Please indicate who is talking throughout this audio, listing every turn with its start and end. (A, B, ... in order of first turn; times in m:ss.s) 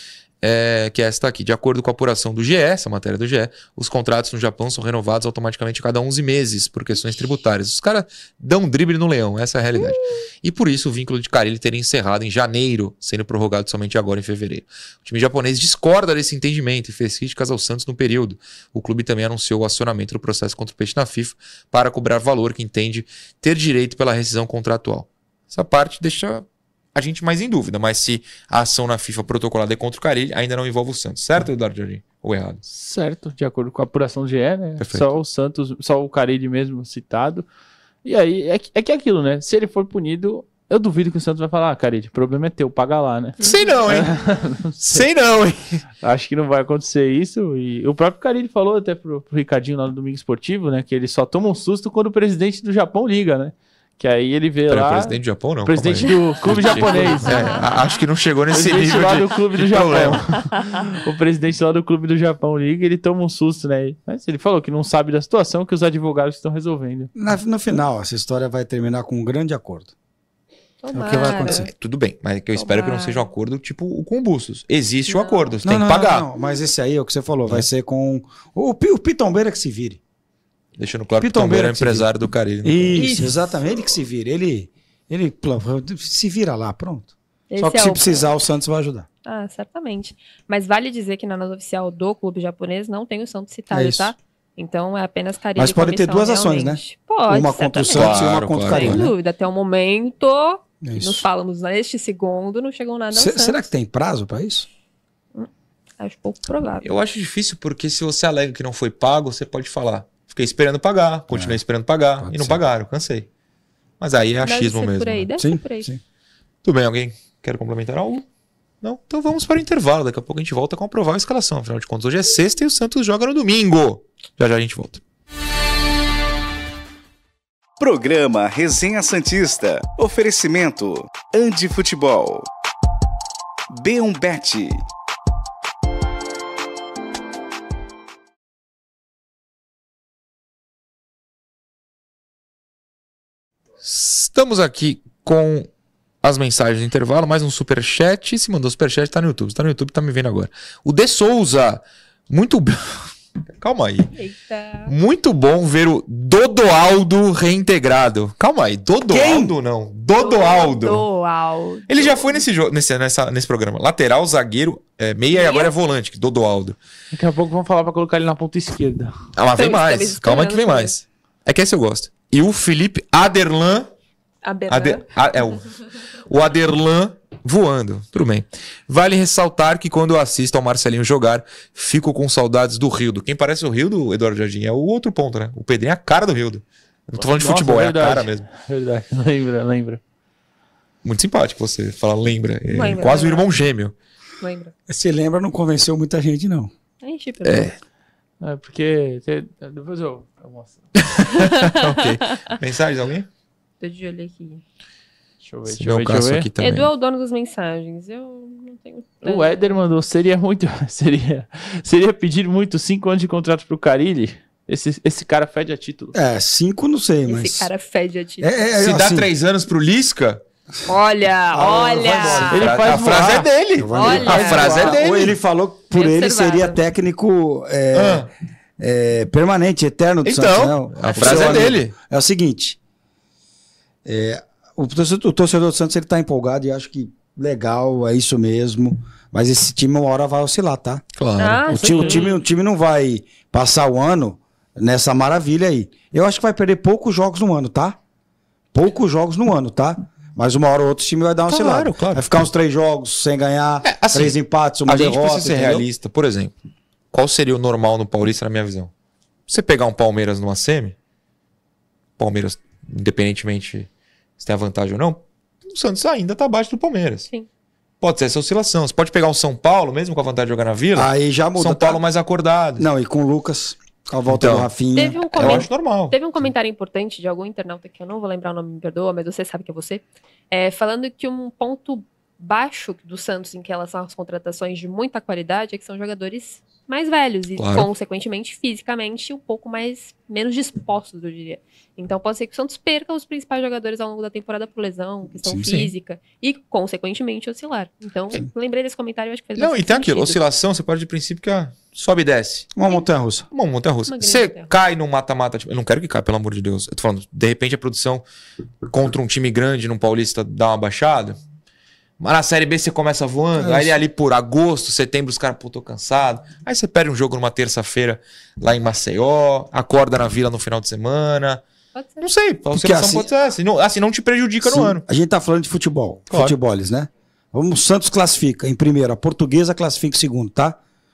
0:00.4-0:32.6 A
0:32.7-0:37.5 B
0:34.8-0:35.2 A
0:38.0-0:45.1 B
0:43.4-0:43.8 C
0:43.4-0:44.2 A
0:44.8-0:45.8 A
0:46.0-0:57.6 B
0:54.7-1:00.2 A
0:56.9-0:57.7 C
0:58.5-1:07.1 B
1:07.2-1:09.9 D
1:10.8-1:11.7 C
1:10.9-1:11.7 D
1:11.4-1:16.3 A
1:12.6-1:13.3 C
1:15.1-1:15.6 C
1:15.6-1:20.0 D
1:20.8-1:23.2 A
1:21.2-1:22.1 D
1:22.6-1:29.1 D
1:23.0-1:23.3 C
1:27.5-1:28.3 C
1:29.2-1:43.6 C
1:33.7-1:34.1 D
1:35.6-1:39.1 D
1:37.9-1:39.1 A
1:40.8-1:41.2 D
1:43.1-1:44.7 D
1:45.4-1:46.9 C
1:46.8-1:53.3 A
1:51.3-1:51.6 D
1:52.2-1:52.6 D
1:54.0-1:55.3 A
1:54.4-1:55.9 C
1:55.4-1:56.0 D
1:56.6-1:58.3 A
1:58.8-2:05.0 A
2:07.8-2:12.5 E
2:13.7-2:14.8 E
2:23.8-2:25.7 A
2:26.2-2:34.1 A
2:34.1-2:34.9 C
2:34.9-2:41.1 A
2:39.1-2:39.5 D
2:40.2-2:42.4 C
2:41.9-2:46.8 A
2:45.3-2:45.7 C
2:47.1-2:49.2 B
2:49.4-2:53.9 A
2:49.6-2:50.9 C
2:54.4-2:55.1 C
2:54.7-2:55.7 A
2:56.3-3:08.5 A
3:07.2-3:10.0 B
3:11.0-3:13.9 A
3:12.7-3:13.5 C
3:14.4-3:14.7 C
3:14.9-3:16.7 D
3:17.0-3:17.8 C
3:17.4-3:17.8 A
3:18.4-3:21.1 B
3:21.1-3:23.3 A
3:21.3-3:22.5 C
3:23.8-3:24.6 C
3:25.4-3:26.5 B
3:25.7-3:26.9 A
3:26.6-3:29.8 C
3:29.2-3:36.2 B
3:36.1-3:37.7 D
3:37.3-3:38.6 C
3:38.4-3:39.3 D
3:38.8-3:40.4 A
3:40.9-3:42.7 C
3:41.5-3:52.8 D
3:41.6-3:45.4 A
3:42.5-3:43.5 B
3:43.9-3:45.0 C
3:44.2-3:45.0 B
3:45.9-3:46.8 C
3:47.9-3:48.3 A
3:50.2-3:51.9 A
3:51.0-3:51.8 C
3:54.0-4:01.0 D
4:01.2-4:02.0 A
4:01.4-4:02.4 C
4:01.7-4:08.0 D
4:08.7-4:15.9 D
4:11.5-4:12.5 A
4:13.8-4:16.5 A
4:17.1-4:18.9 A
4:19.5-4:21.0 A
4:22.2-4:23.9 A
4:24.4-4:27.3 A
4:28.0-4:32.9 A
4:31.0-4:32.0 D
4:32.8-4:35.7 D
4:34.3-4:34.7 A
4:35.0-5:00.4 C
4:35.3-4:36.2 A
4:47.6-4:47.9 A
4:55.5-4:55.9 A
4:59.6-5:02.7 A
5:02.8-5:03.5 D
5:03.5-5:08.2 A
5:04.1-5:04.7 C
5:08.9-5:11.4 A
5:12.2-5:21.6 A
5:13.6-5:14.0 D
5:22.0-5:22.3 C
5:22.2-5:25.0 A
5:22.7-5:23.3 D
5:24.6-5:30.8 D
5:26.3-5:26.6 A